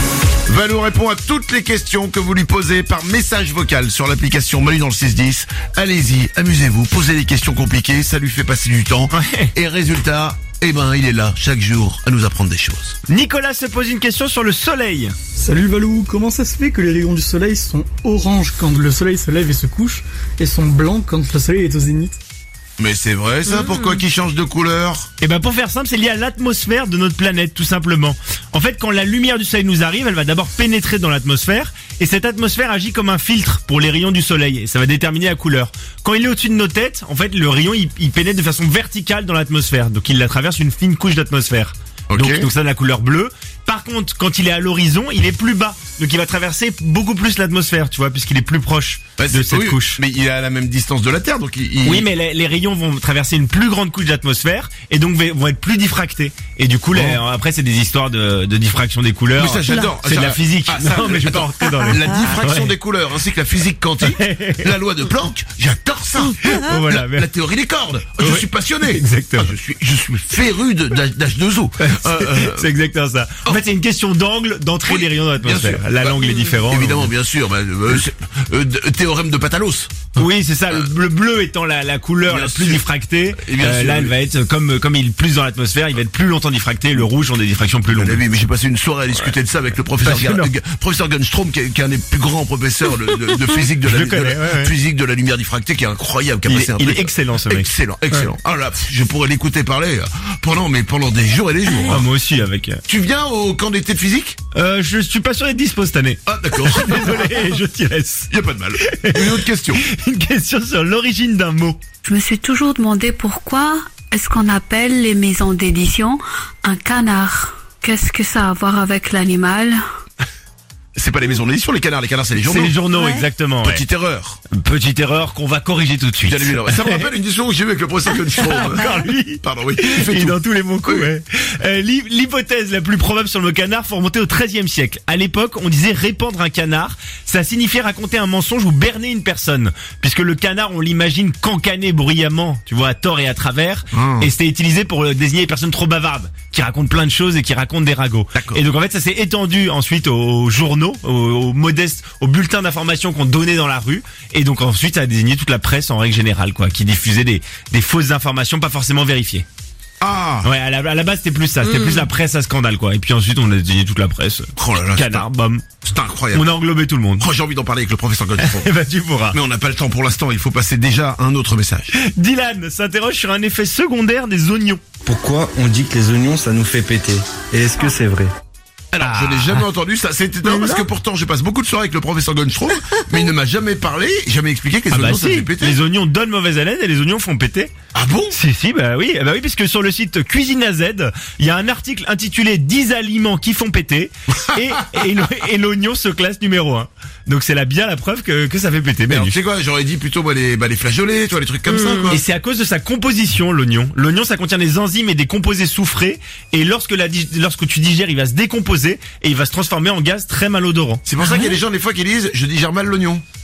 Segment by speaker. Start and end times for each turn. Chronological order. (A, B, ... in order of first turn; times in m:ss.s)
0:00.5-0:13.0 A
0:09.1-0:09.5 B
0:13.1-0:15.1 B
0:15.4-0:22.2 C
0:22.8-0:25.1 A
0:25.2-0:50.0 B
0:42.1-0:42.5 A
0:49.2-0:52.1 A
0:51.8-1:02.7 B
0:56.9-0:57.2 A
0:59.4-1:12.7 A
1:04.0-1:04.7 B
1:06.4-1:07.3 B
1:08.2-1:09.5 B
1:11.8-1:17.1 B
1:14.9-1:20.9 A
1:20.2-1:28.2 B
1:22.3-1:24.1 A
1:27.9-1:42.0 A
1:30.0-1:30.5 B
1:33.8-1:34.7 B
1:36.5-1:38.3 B
1:41.8-1:42.8 B
1:42.9-1:44.4 A
1:44.5-1:48.3 B
1:46.3-1:47.6 A
1:48.3-1:49.8 A
1:48.8-1:51.8 B
1:52.0-1:59.8 D
2:01.0-2:02.8 A
2:02.4-2:03.8 B
2:03.6-2:04.4 A
2:04.5-2:07.1 B
2:06.2-2:11.1 A
2:08.3-2:39.5 B
2:23.9-2:24.3 A
2:28.4-2:28.6 A
2:40.0-2:40.5 A
2:40.4-2:45.7 B
2:44.6-2:45.3 A
2:45.8-2:46.5 A
2:46.3-2:47.3 B
2:47.2-2:48.7 A
2:48.4-2:49.4 B
2:49.3-2:51.9 A
2:51.9-2:54.8 B
2:55.0-2:58.3 E
2:58.9-3:05.8 A
2:59.0-2:59.6 B
3:04.9-3:07.7 B
3:07.9-3:08.4 A
3:08.3-3:19.4 B
3:19.1-3:22.2 A
3:22.1-3:31.0 B
3:31.0-3:33.2 A